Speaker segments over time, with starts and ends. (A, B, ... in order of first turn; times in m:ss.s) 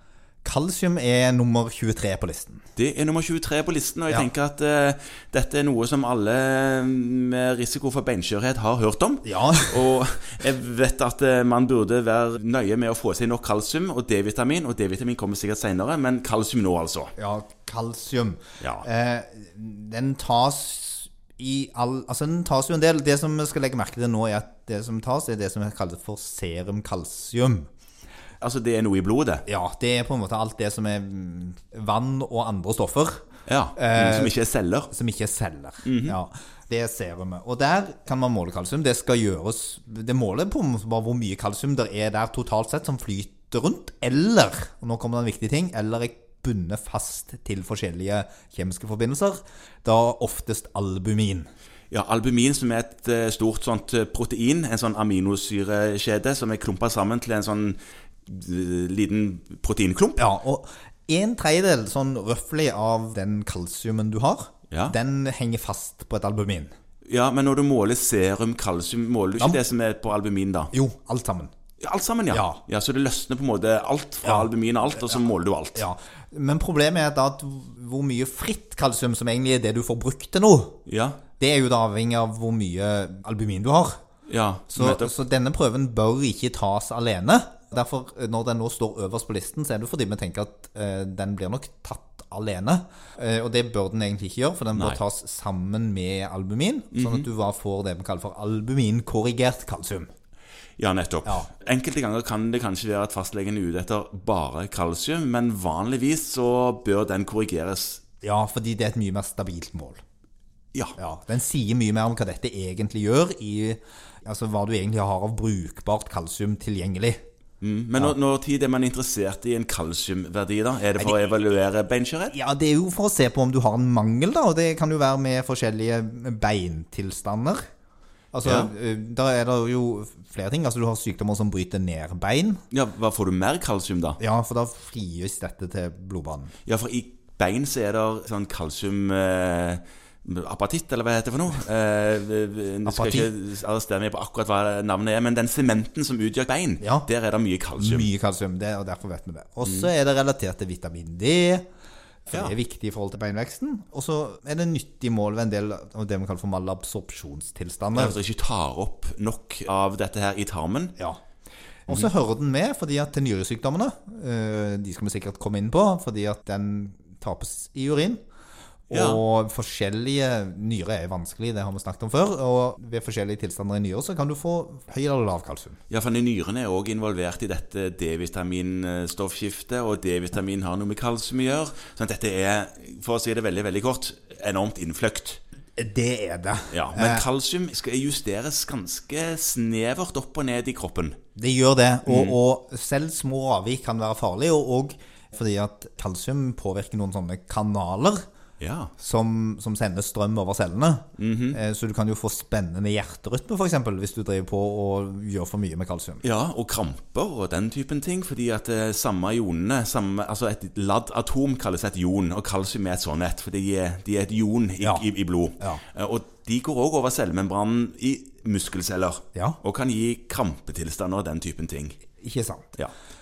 0:00.4-0:02.6 A
0:02.8-0:17.1 B
0:09.2-0:10.0 A
0:17.2-0:27.7 A
0:18.6-0:18.9 B
0:28.4-0:29.4 B
0:29.5-0:33.2 A
0:33.5-0:34.9 B
0:33.8-0:34.4 A
0:34.9-0:51.5 A
0:35.8-0:36.2 B
0:51.9-1:00.2 B
1:00.2-1:06.7 A
1:07.1-1:10.7 B
1:10.7-1:11.5 A
1:11.8-1:15.8 B
1:12.3-1:12.6 A
1:14.2-1:14.5 A
1:15.8-1:20.8 A
1:20.9-1:21.2 B
1:21.4-1:24.0 A
1:24.3-1:25.1 B
1:24.7-1:40.1 A
1:36.9-1:37.3 B
1:40.8-1:48.0 B
1:48.2-1:50.0 A
1:51.0-1:57.2 A
1:57.6-2:02.4 B
2:02.3-2:07.7 A
2:08.3-2:12.6 A
2:08.4-2:08.7 B
2:12.7-2:14.2 B
2:14.2-2:16.5 A
2:16.7-2:28.1 B
2:22.9-2:23.3 A
2:26.8-2:27.1 A
2:27.8-2:31.6 A
2:32.3-2:38.2 A
2:38.0-2:40.9 B
2:41.9-2:48.2 A
2:48.9-2:55.8 A
2:48.9-2:49.2 B
2:55.9-3:05.4 B
3:05.8-3:07.3 A
3:06.7-3:11.2 B
3:11.4-3:18.2 A
3:12.1-3:12.4 B
3:18.6-3:18.9 B
3:19.0-3:26.2 A
3:21.2-3:21.6 B
3:26.2-3:42.0 B
3:34.8-3:35.1 A
3:39.3-3:39.6 A
3:42.2-3:42.7 A